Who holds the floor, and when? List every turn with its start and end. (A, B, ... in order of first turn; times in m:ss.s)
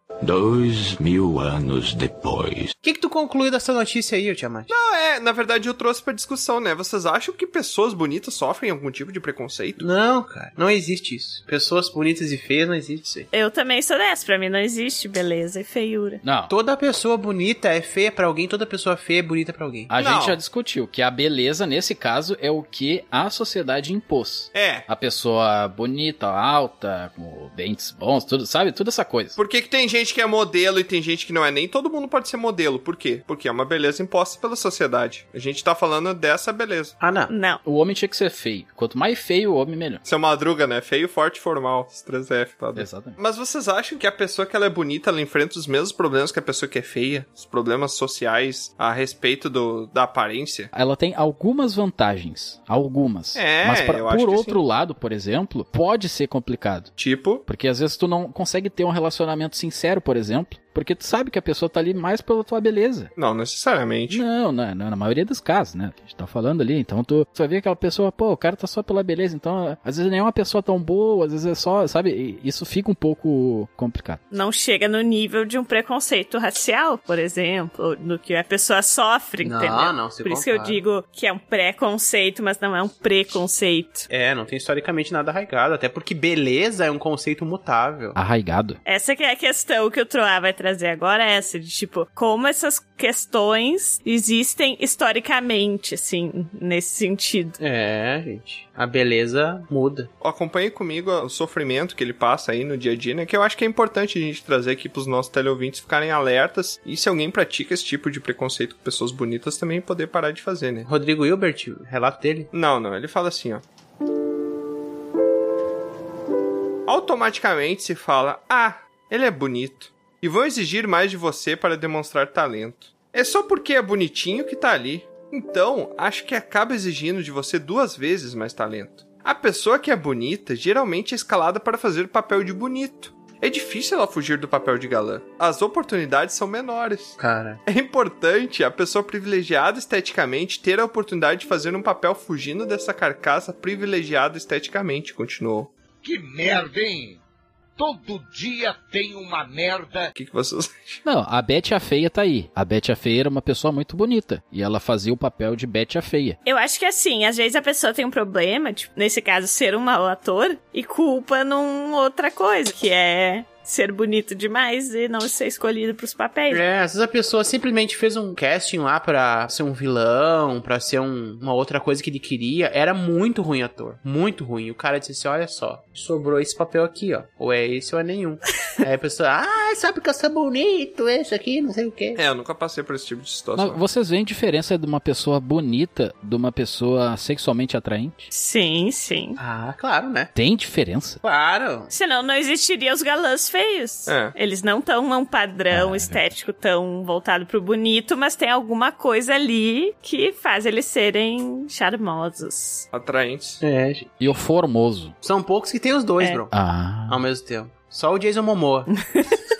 0:00.2-0:02.7 A
0:02.8-0:04.7 B
0:04.7-0:09.9 C
0:09.8-0:13.3 B
0:13.3-0:16.2 D
0:16.2-0:16.5 E
0:16.5-0:19.9 B
0:19.9-0:29.4 E
0:20.0-0:20.4 C
0:24.5-0:24.8 C
0:29.4-0:36.9 C
0:37.0-0:37.3 B
0:37.3-0:37.6 D
0:37.6-0:40.0 E
0:40.0-0:50.7 C
0:42.8-0:43.2 E
0:50.7-0:56.9 E
0:53.4-0:54.6 C
0:57.0-0:57.4 C
0:57.5-1:03.1 E
1:03.2-1:04.2 C
1:04.1-1:14.2 E
1:14.3-1:24.1 D
1:19.4-1:20.8 B
1:24.1-1:28.2 B
1:28.2-1:28.8 E
1:28.8-1:37.6 D
1:37.6-1:40.1 B
1:40.2-1:50.9 C
1:50.8-1:52.5 B
1:52.5-1:53.6 C
1:56.9-2:25.7 C
2:17.2-2:17.6 B
2:26.0-2:27.2 F
2:27.8-2:30.1 F
2:30.2-2:31.0 C
2:31.0-2:36.4 E
2:36.4-2:46.6 D
2:46.5-3:02.2 B
3:02.2-3:03.8 C
3:03.6-3:08.3 E
3:08.3-3:09.4 D
3:09.4-3:10.3 B
3:10.4-3:11.2 E
3:11.2-3:11.9 B
3:11.9-3:22.9 D
3:14.1-3:14.3 C
3:15.7-3:16.3 E
3:22.9-3:23.6 C
3:23.6-3:24.1 B
3:24.2-3:25.1 E
3:25.2-3:26.5 B
3:26.5-3:27.2 E
3:27.1-3:28.9 B